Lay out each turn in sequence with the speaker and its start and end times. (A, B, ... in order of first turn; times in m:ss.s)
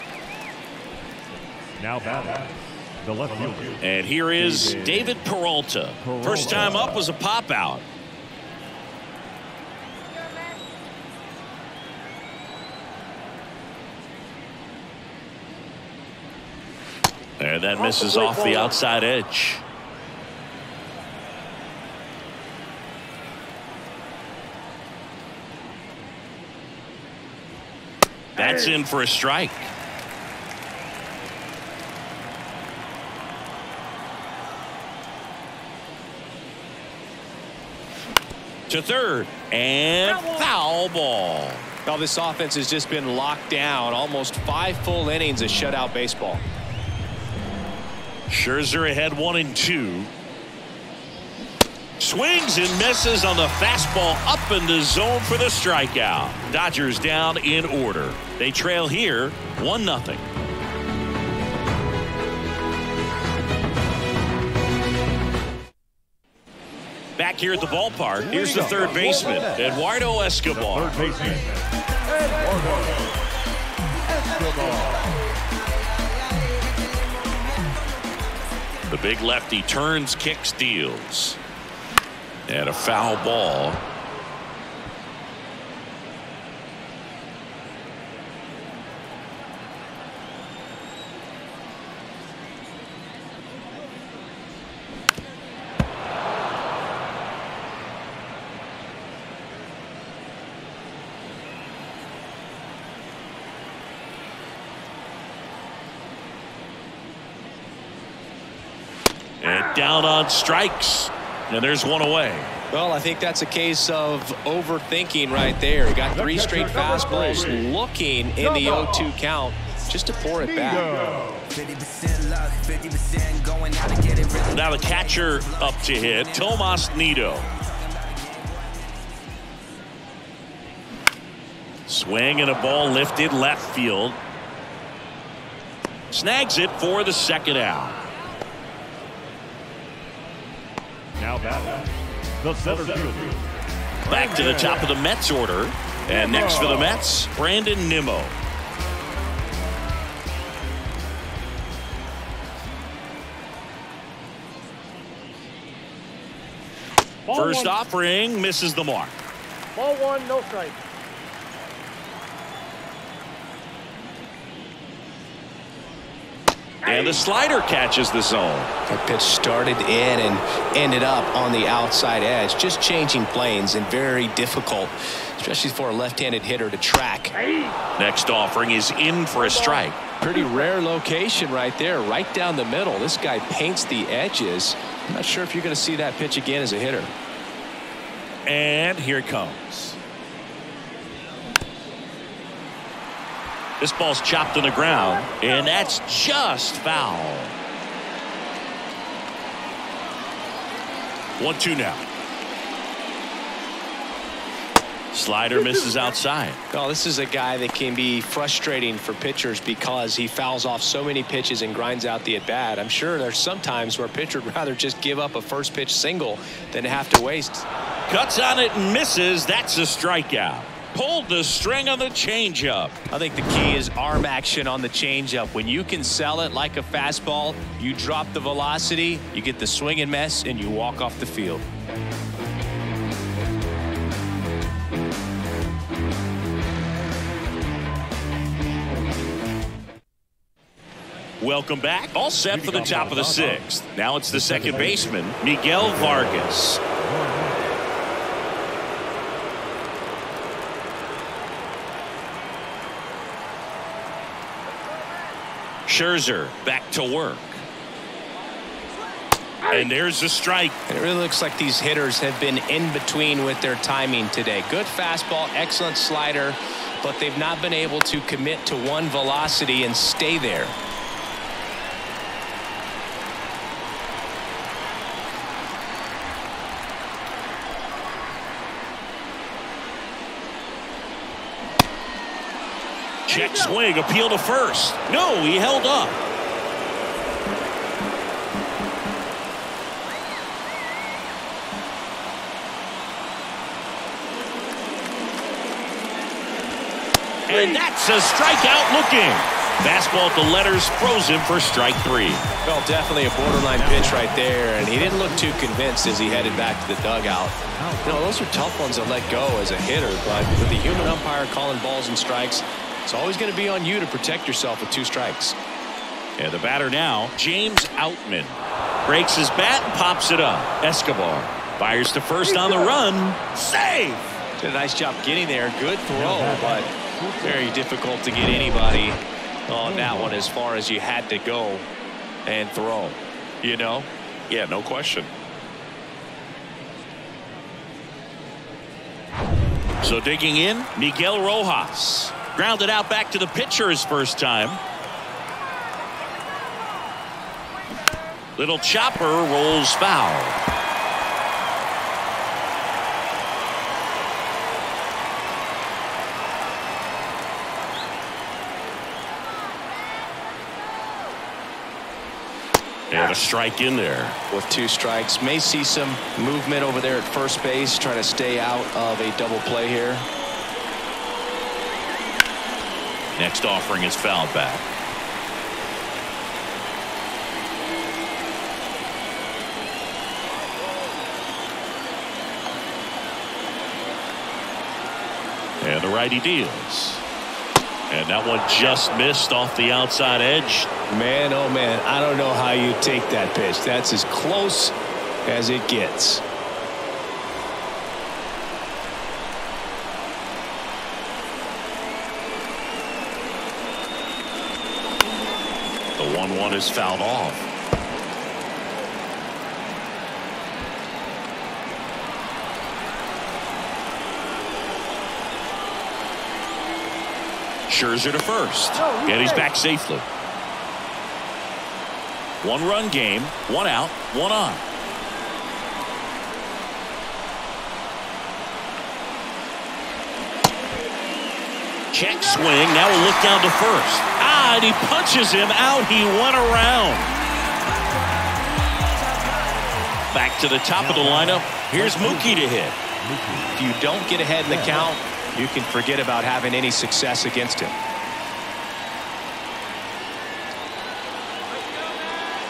0:01.8-0:03.8 A
0:03.8-0:07.8 B
0:04.4-0:05.2 A
0:06.0-0:07.1 A
0:17.4-0:19.6 B
0:17.8-0:18.8 C
0:28.4-0:29.7 B
0:28.4-0:28.8 C
0:38.7-0:41.7 B
0:40.0-0:40.5 C
0:41.8-0:46.4 D
0:48.3-0:50.1 B
0:52.0-1:00.3 B
1:07.2-1:11.0 B
1:08.2-1:11.6 A
1:12.1-1:12.7 E
1:12.3-1:12.8 A
1:14.1-1:15.1 E
1:14.3-1:14.9 A
1:16.0-1:18.8 E
1:18.9-1:21.4 B
1:22.5-1:23.8 B
1:49.4-1:52.5 B
1:49.4-1:49.8 C
1:52.7-2:00.9 D
1:56.1-1:57.6 A
1:56.8-1:57.4 C
1:58.4-1:58.9 C
2:00.5-2:01.4 A
2:01.5-2:09.0 E
2:04.5-2:07.5 B
2:11.9-2:14.2 B
2:16.1-2:17.9 B
2:21.2-2:21.9 A
2:22.4-2:23.4 A
2:24.0-2:28.3 B
2:24.1-2:24.8 A
2:37.2-2:37.8 C
2:37.3-2:39.1 B
2:39.7-2:40.8 C
2:46.8-2:47.2 C
2:46.8-2:48.7 B
2:48.9-2:57.3 D
2:57.3-2:57.8 C
2:58.0-3:00.0 B
2:59.4-3:00.7 C
3:00.2-3:07.1 D
3:08.4-3:10.0 B
3:13.8-3:17.5 B
3:15.2-3:15.9 C
3:21.4-3:22.1 B
3:25.1-3:26.6 B
3:25.5-3:26.1 C
3:26.7-3:37.7 D
3:38.1-3:42.9 B
3:43.1-3:51.7 D
4:01.4-4:06.8 B
4:02.5-4:03.6 A
4:04.3-4:05.1 A
4:05.8-4:07.7 A
4:15.8-4:17.6 B
4:19.7-4:20.8 B
4:20.9-4:30.8 D
4:43.3-4:46.2 B
4:43.3-4:43.7 C
4:57.5-5:02.4 B
4:57.5-4:57.8 C
5:02.6-5:15.6 D
5:03.8-5:05.7 A
5:07.7-5:08.6 A
5:16.4-5:24.3 B
5:22.4-5:22.9 C
5:24.6-5:26.9 D
5:26.1-5:27.7 A
5:27.4-5:31.8 D
5:29.9-5:30.4 A
5:32.4-5:34.1 D
5:34.5-5:35.3 B
5:40.0-5:44.8 B
5:48.6-5:50.6 B
6:03.1-6:04.4 B
6:04.5-6:10.3 D
6:13.4-6:14.8 B
6:25.8-6:27.2 B
6:28.1-6:30.9 B
6:31.1-6:35.0 D
6:35.5-6:36.4 D
6:46.2-6:47.7 B
6:57.9-7:00.2 B
6:59.0-6:59.7 C
7:02.6-7:04.8 B
7:12.1-7:17.3 B
7:17.1-7:20.2 E
7:20.3-7:23.0 B
7:21.0-7:23.9 A
7:23.7-7:28.0 D
7:24.7-7:25.1 A